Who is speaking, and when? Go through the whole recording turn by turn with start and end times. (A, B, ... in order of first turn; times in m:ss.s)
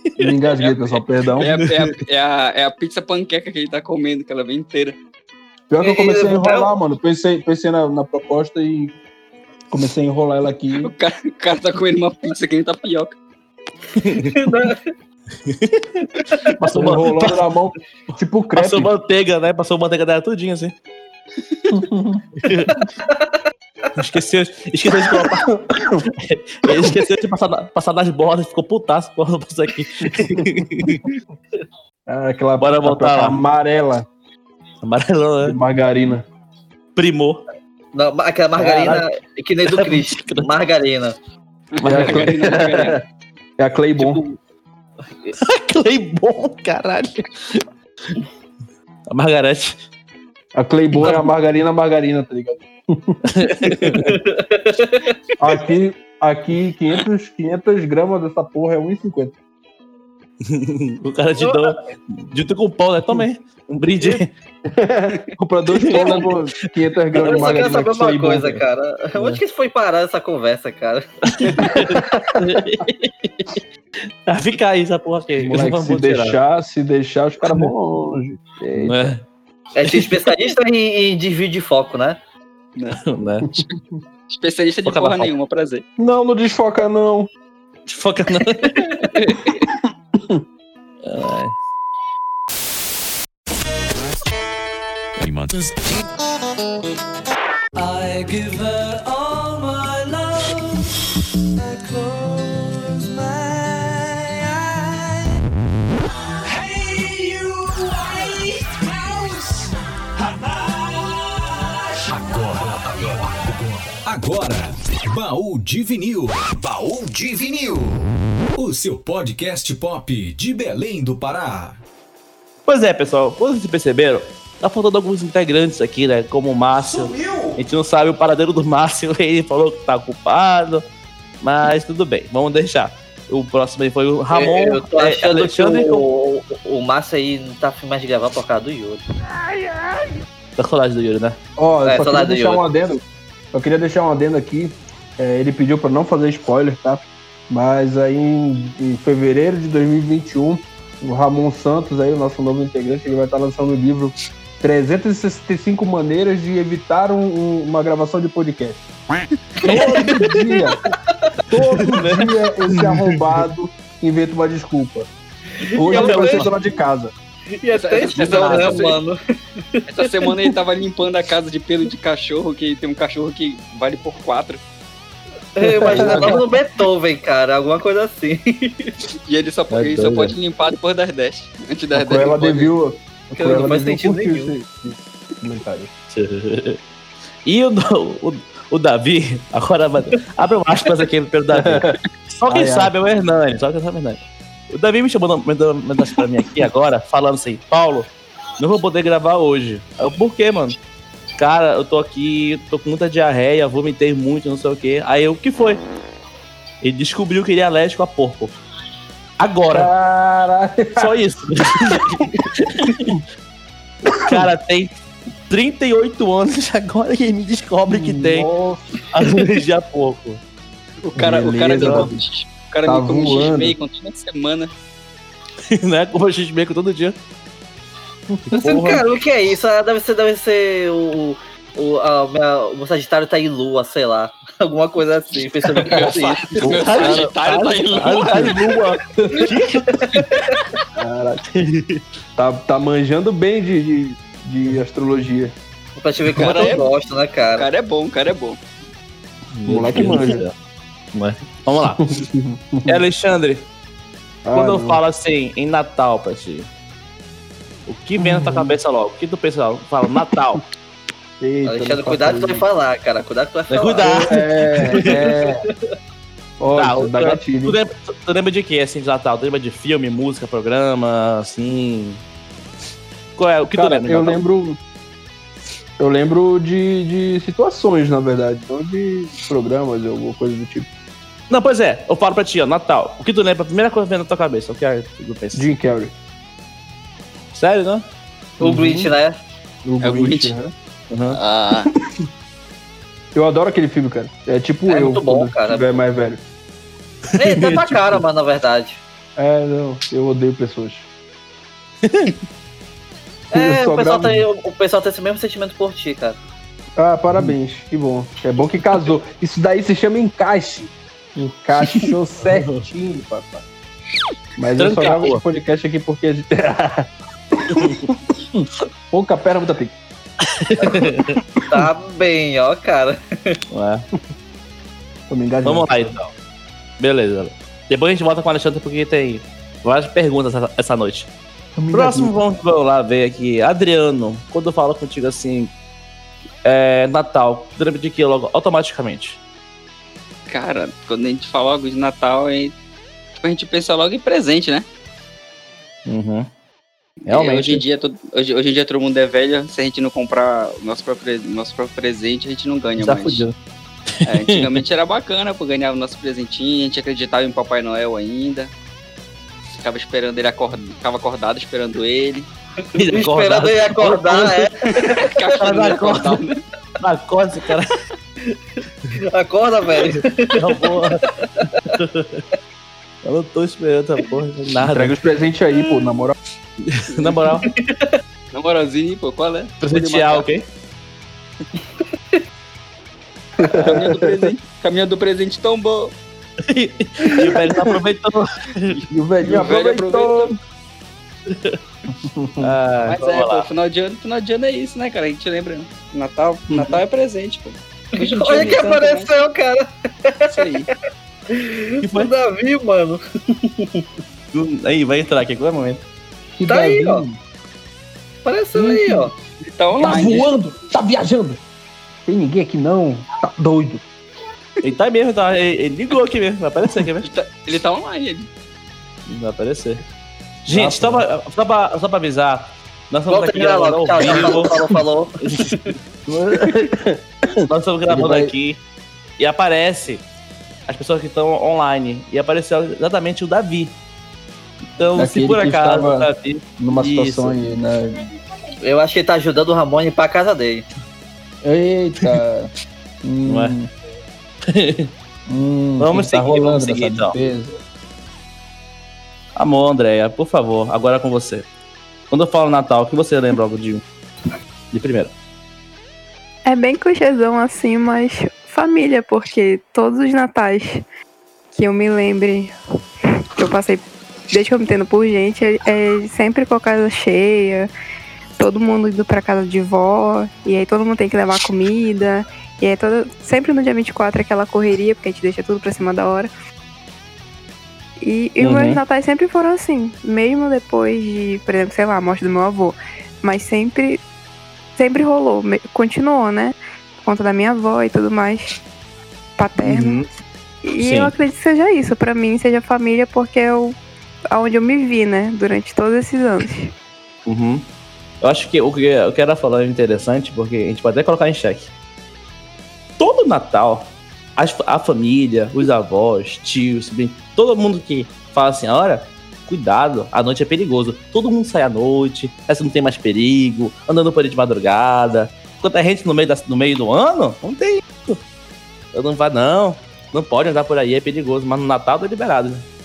0:00.2-0:01.6 A
0:00.6-0:05.0 B
0:01.6-0:02.0 C
0:05.7-0:09.0 A
0:05.8-0:06.7 D
0:09.7-0:10.9 A
0:10.8-0:13.2 B
0:14.0-0:14.3 C
0:14.3-0:14.8 D
0:15.5-0:17.5 C
0:16.7-0:18.9 A
0:18.6-0:20.7 C
0:21.4-0:21.8 C
0:21.7-0:22.2 A
0:22.4-0:22.8 C
0:23.1-0:23.4 D
0:24.0-0:31.0 C
0:25.2-0:26.1 A
0:30.1-0:30.4 A
0:32.1-0:34.1 A
0:32.6-0:33.4 C
0:34.8-0:35.6 C
0:35.4-0:36.2 A
0:37.0-0:37.4 C
0:37.9-0:41.2 D
0:38.6-0:39.1 C
0:39.6-0:40.5 C
0:41.7-0:43.0 B
0:41.8-0:42.6 C
0:41.8-0:43.0 A
0:43.6-0:44.2 A
0:45.4-0:48.2 C
0:49.1-0:49.8 C
0:50.6-0:54.1 A
0:53.3-0:54.2 C
0:53.9-0:55.2 D
0:55.4-0:59.4 A
1:00.4-1:04.3 C
1:01.4-1:01.8 D
1:04.0-1:08.6 A
1:05.8-1:07.6 C
1:05.9-1:06.3 D
1:07.2-1:11.1 D
1:09.2-1:09.4 C
1:11.3-1:13.5 C
1:11.9-1:12.4 A
1:14.3-1:16.4 C
1:15.4-1:19.2 A
1:18.8-1:19.2 C
1:19.8-1:22.2 D
1:22.9-1:23.5 C
1:24.3-1:25.8 B
1:24.9-1:25.3 C
1:26.0-1:27.3 A
1:27.9-1:29.1 C
1:28.6-1:29.1 D
1:29.2-1:29.7 B
1:31.0-1:31.6 C
1:35.2-1:35.9 E
1:37.8-1:41.0 F
1:41.6-1:45.4 F
1:46.4-1:49.7 F
1:52.1-2:01.8 E
2:02.7-2:10.8 C
2:06.8-2:07.6 E
2:11.4-2:16.1 C
2:14.3-2:19.0 D
2:20.6-2:21.4 C
2:21.6-2:38.8 A
2:21.8-2:22.6 D
2:39.6-2:40.8 A
2:39.7-2:40.0 C
2:41.5-2:45.1 A
2:41.5-2:43.3 C
2:45.8-2:47.1 A
2:45.8-2:46.5 D
2:45.8-2:46.5 C
2:47.6-2:49.2 D
2:47.7-2:49.0 B
2:48.2-2:48.7 A
2:49.8-2:50.6 D
2:49.9-2:54.6 B
2:55.6-2:59.0 D
2:55.6-2:56.4 A
2:56.0-2:56.3 C
2:56.0-2:56.3 B
2:59.3-3:02.7 B
2:59.7-3:00.3 C
3:01.9-3:05.9 A
3:03.4-3:04.5 D
3:06.1-3:06.8 C
3:07.5-3:14.2 C
3:11.6-3:12.0 A
3:12.5-3:12.9 A
3:14.7-3:20.8 C
3:21.4-3:25.8 C
3:26.8-3:28.6 C
3:29.4-3:29.9 C
3:29.7-3:31.1 A
3:31.0-3:33.2 C
3:32.9-3:33.2 A
3:34.1-3:34.5 A
3:34.2-3:38.5 C
3:37.9-3:38.9 A
3:39.1-3:40.4 C
3:41.1-3:44.7 B
3:41.2-3:42.2 A
3:41.8-3:42.1 C
3:42.9-3:43.8 A
3:45.6-3:47.2 C
3:48.3-3:48.6 A
3:48.5-3:49.0 C
3:48.6-3:57.2 D
3:55.8-3:58.6 B
3:56.6-4:00.0 C
3:59.2-3:59.5 A
4:00.1-4:00.6 D
4:01.0-4:01.4 A
4:01.4-4:02.0 C
4:02.4-4:05.6 A
4:06.0-4:07.7 D
4:06.4-4:06.9 B
4:07.6-4:08.6 B
4:09.5-4:10.5 C
4:09.6-4:10.5 A
4:11.1-4:12.2 C
4:12.0-4:13.0 A
4:12.9-4:13.7 C
4:14.4-4:15.0 A
4:14.5-4:16.7 C
4:17.9-4:20.6 C
4:18.2-4:18.8 A
4:21.4-4:22.6 A
4:21.7-4:25.9 D
4:23.7-4:25.2 C
4:24.0-4:25.6 A
4:26.6-4:27.8 A
4:26.7-4:32.2 C
4:33.4-4:34.4 C
4:33.7-4:34.8 A
4:36.0-4:40.9 A
4:41.5-4:45.7 C
4:45.6-4:46.1 A
4:47.5-4:48.1 C
4:48.6-4:49.1 A
4:48.6-4:49.4 D
4:49.8-4:50.7 A
4:50.0-4:50.5 B
4:51.1-4:51.4 C
4:51.3-4:51.9 B
4:53.3-4:56.4 A
4:54.9-4:56.0 D
4:57.3-4:58.2 C
4:57.4-4:59.0 D
4:59.4-5:01.1 A
5:02.0-5:02.3 C
5:03.5-5:04.4 A
5:03.5-5:06.4 D
5:07.0-5:13.6 A
5:12.5-5:12.8 C
5:14.6-5:17.1 A
5:14.8-5:15.4 C
5:17.6-5:20.0 A
5:17.7-5:18.0 C
5:20.4-5:21.4 C
5:20.8-5:21.1 A
5:21.7-5:23.6 D
5:23.7-5:24.0 C
5:25.3-5:26.2 A
5:25.6-5:26.3 C
5:27.0-5:31.3 C
5:31.8-5:32.4 A
5:31.9-5:35.7 C
5:36.6-5:39.4 C
5:40.5-5:42.7 B
5:43.4-5:44.9 B
5:46.1-5:46.5 C
5:47.3-5:53.4 B
5:47.3-5:47.8 C
5:53.0-5:53.5 C
5:54.2-5:54.8 C
5:54.2-5:58.7 B
5:59.8-6:02.5 B
6:03.0-6:06.5 C
6:03.1-6:05.3 D
6:05.3-6:06.6 B
6:07.0-6:08.0 C
6:09.3-6:12.0 D
6:10.5-6:11.3 C
6:11.9-6:12.4 C
6:13.2-6:15.1 C
6:14.8-6:16.4 A
6:16.8-6:17.7 C
6:17.5-6:18.2 D
6:18.5-6:20.5 B
6:19.8-6:20.6 C
6:23.6-6:24.5 A
6:23.8-6:26.1 B
6:26.6-6:29.0 C
6:28.9-6:30.5 B
6:29.1-6:30.6 A
6:31.5-6:31.8 C
6:32.2-6:32.7 A
6:32.6-6:33.7 C
6:33.1-6:39.3 B
6:36.7-6:37.0 C
6:38.2-6:40.8 D
6:40.5-6:40.9 B
6:41.5-6:44.0 D
6:42.0-6:42.3 C
6:44.5-6:46.0 C
6:46.6-6:47.4 A
6:46.7-6:47.2 D
6:48.4-6:49.3 D
6:48.7-6:49.3 A
6:49.6-6:50.5 B
6:50.0-6:51.6 A
6:52.3-6:54.0 A
6:54.8-6:57.3 C
6:57.2-6:58.5 B
6:59.3-7:00.0 C
7:00.6-7:04.7 C
7:00.7-7:01.2 A
7:03.3-7:05.8 D
7:05.4-7:06.9 C
7:06.5-7:08.5 A
7:07.6-7:08.8 C
7:09.4-7:10.2 C
7:10.9-7:14.0 C
7:15.0-7:17.6 C
7:15.2-7:16.3 A
7:16.8-7:18.3 A
7:18.8-7:20.9 D
7:21.6-7:22.7 A
7:23.2-7:23.9 A
7:23.5-7:23.8 C
7:24.7-7:25.1 C
7:25.5-7:27.8 A
7:26.0-7:27.4 C
7:29.6-7:31.7 C
7:32.3-7:34.0 C
7:34.9-7:35.3 C
7:36.7-7:41.0 G
7:41.7-7:42.8 G
7:43.6-7:47.9 G
7:48.6-7:56.5 G
7:58.2-8:04.2 G
7:58.6-7:59.0 C
8:05.0-8:08.8 G
8:09.6-8:10.2 G
8:09.8-8:10.3 C
8:10.8-8:14.0 G
8:11.0-8:11.3 C
8:14.5-8:16.9 G
8:17.5-8:17.9 C
8:18.4-8:21.9 C
8:23.2-8:38.4 C
8:39.1-8:42.8 C